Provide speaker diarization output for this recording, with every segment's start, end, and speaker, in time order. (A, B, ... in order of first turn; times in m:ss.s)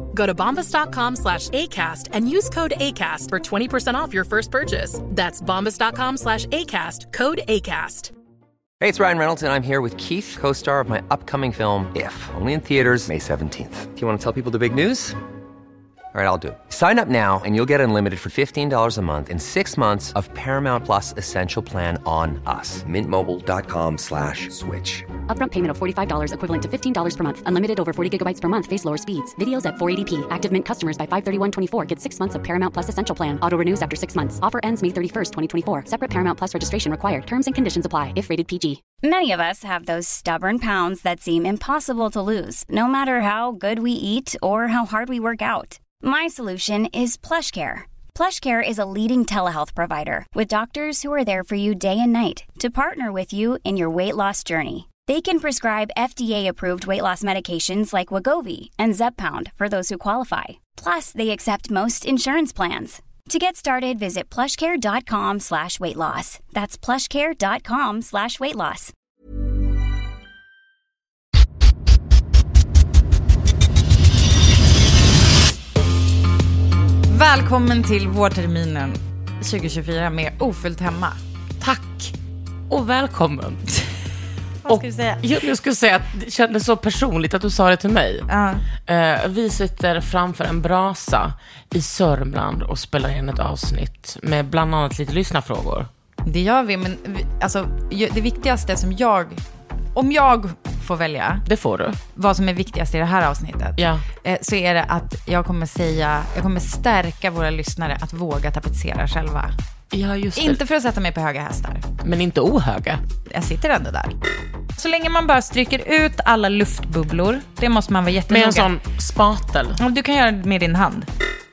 0:00.1-0:08.1 A
0:08.8-0:15.2 B
0:16.1-0:25.1 B
0:25.3-0:38.8 C
0:39.0-1:08.9 D
1:17.1-1:21.2 E
1:21.6-1:22.1 F
1:22.7-1:23.6 F
1:24.6-1:25.2 E
1:24.6-1:28.3 F
1:28.3-1:28.6 E
1:28.8-1:35.9 F
1:36.2-1:39.4 E
1:39.9-1:41.4 E
1:41.4-1:42.0 F
1:42.1-1:49.5 E
1:43.8-1:44.0 F
1:49.9-1:50.6 F
1:50.4-1:51.8 E
1:52.0-1:53.0 F
1:53.3-1:54.1 E
1:54.8-1:58.7 E
1:58.3-1:59.8 F
1:59.8-2:01.1 E